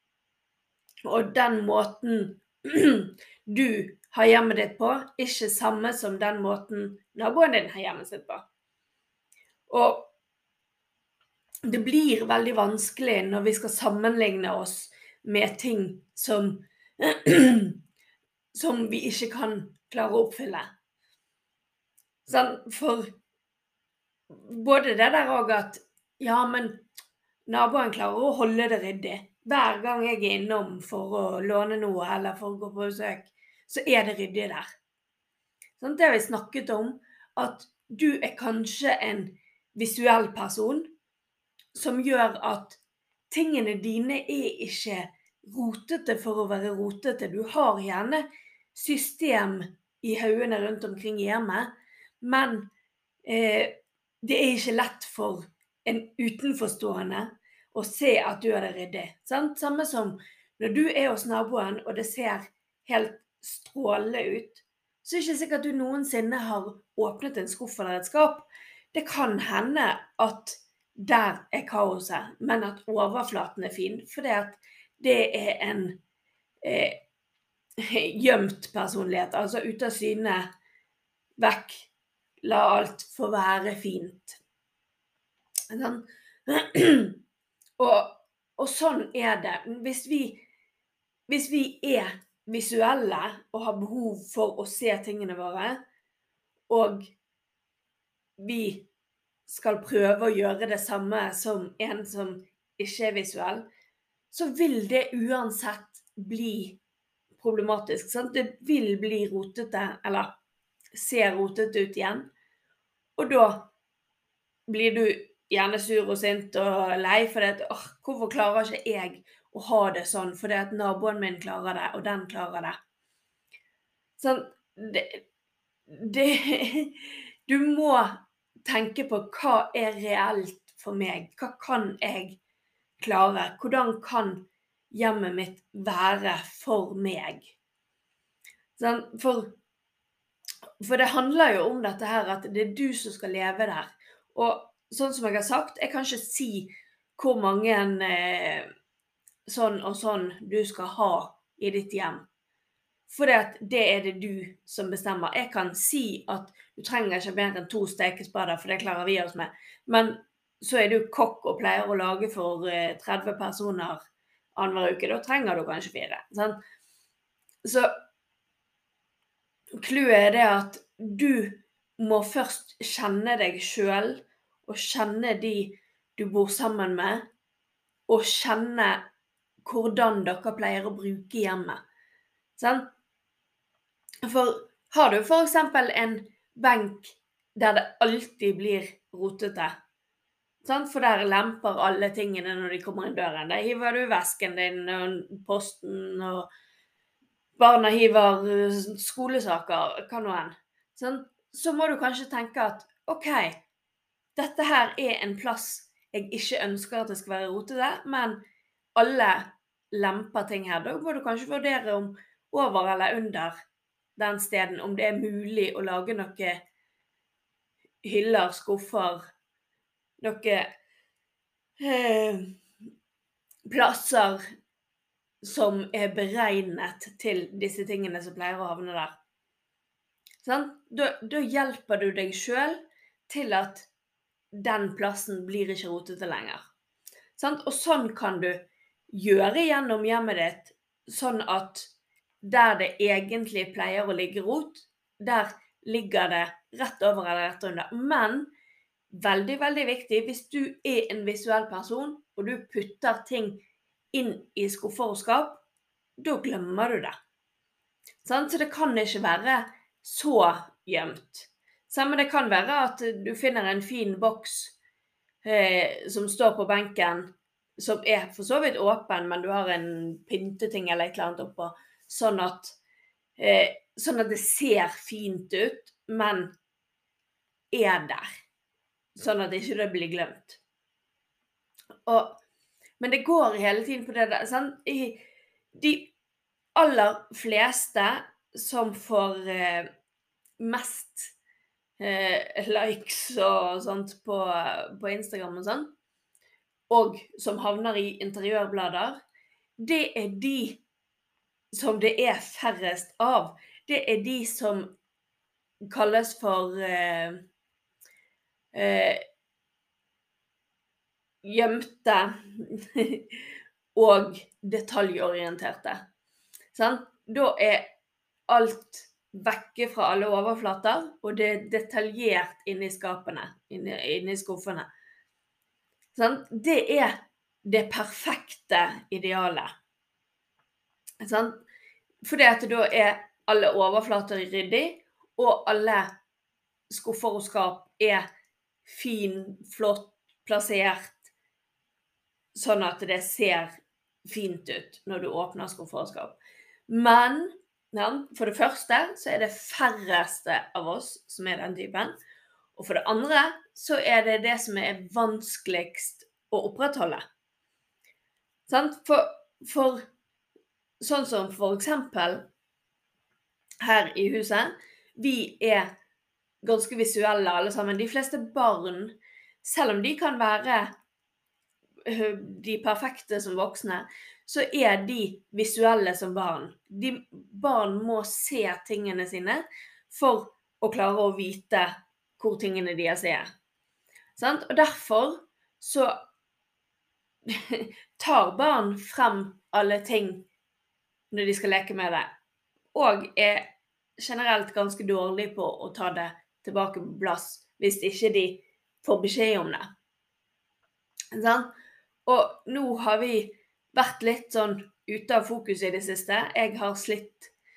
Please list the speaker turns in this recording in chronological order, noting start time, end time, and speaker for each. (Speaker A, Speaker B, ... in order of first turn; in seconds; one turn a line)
Speaker A: 1.1-8.4
Speaker A: 9.7-10.1
Speaker A: 11.6-17.8
Speaker A: 18.5-20.7
Speaker A: 22.2-23.1
Speaker A: 24.3-26.8
Speaker A: 27.5-34.7
Speaker A: 35.8-40.9
Speaker A: 41.7-52.7
Speaker A: 53.2-76.0
Speaker A: 76.6-77.0
Speaker A: 77.8-80.5
Speaker A: 81.4-81.9
Speaker A: 82.4-84.4
Speaker A: 85.7-87.2
Speaker A: 87.8-90.4
Speaker A: 91.3-95.8
Speaker A: 96.7-97.1
Speaker A: 98.4-98.9
Speaker A: 99.5-103.6
Speaker A: 104.3-106.8
Speaker A: 107.3-110.3
Speaker A: 110.9-112.3
Speaker A: 113.2-113.7
Speaker A: 114.7-122.8
Speaker A: 124.2-125.2
Speaker A: 125.9-132.4
Speaker A: 133.0-137.5
Speaker A: 138.8-139.6
Speaker A: 140.8-148.7
Speaker A: 149.4-152.2
Speaker A: 153.1-164.0
Speaker A: 164.5-166.6
Speaker A: 167.6-167.9
Speaker A: 169.8-177.3
Speaker A: 178.1-179.0
Speaker A: 179.6-181.8
Speaker A: 182.6-182.9
Speaker A: 184.2-189.7
Speaker A: 190.6-196.5
Speaker A: 197.6-203.6
Speaker A: 204.3-208.4
Speaker A: 208.9-213.6
Speaker A: 214.2-216.6
Speaker A: 218.0-219.2
Speaker A: 220.2-220.7
Speaker A: 221.8-222.5
Speaker A: 223.7-224.4
Speaker A: 225.4-229.1
Speaker A: 230.4-233.9
Speaker A: 234.5-236.6
Speaker A: 237.4-241.9
Speaker A: 242.4-248.5
Speaker A: 249.1-255.6
Speaker A: 256.2-257.1
Speaker A: 258.2-264.8
Speaker A: 265.4-272.8
Speaker A: 273.4-276.5
Speaker A: 277.7-278.2
Speaker A: 279.1-280.6
Speaker A: 282.1-282.4
Speaker A: 283.0-285.2
Speaker A: 285.7-286.1
Speaker A: 286.8-289.9
Speaker A: 290.6-291.3
Speaker A: 292.0-295.9
Speaker A: 296.9-299.2
Speaker A: 299.8-300.8
Speaker A: 301.7-304.9
Speaker A: 305.9-307.4
Speaker A: 308.7-309.2
Speaker A: 311.4-313.4
Speaker A: 313.9-316.0
Speaker A: 316.7-317.9
Speaker A: 318.5-324.9
Speaker A: 326.1-329.7
Speaker A: 331.2-331.6
Speaker A: 332.2-336.1
Speaker A: 336.9-338.2
Speaker A: 338.9-341.3
Speaker A: 342.5-343.7
Speaker A: 344.2-346.4
Speaker A: 346.9-352.1
Speaker A: 352.8-357.2
Speaker A: 358.7-360.0
Speaker A: 361.0-362.4
Speaker A: 363.8-365.9
Speaker A: 366.6-370.9
Speaker A: 372.1-383.5
Speaker A: 384.4-386.1
Speaker A: 387.5-390.4
Speaker A: 391.3-392.3
Speaker A: 392.9-399.9
Speaker A: 401.3-401.7
Speaker A: 402.2-407.5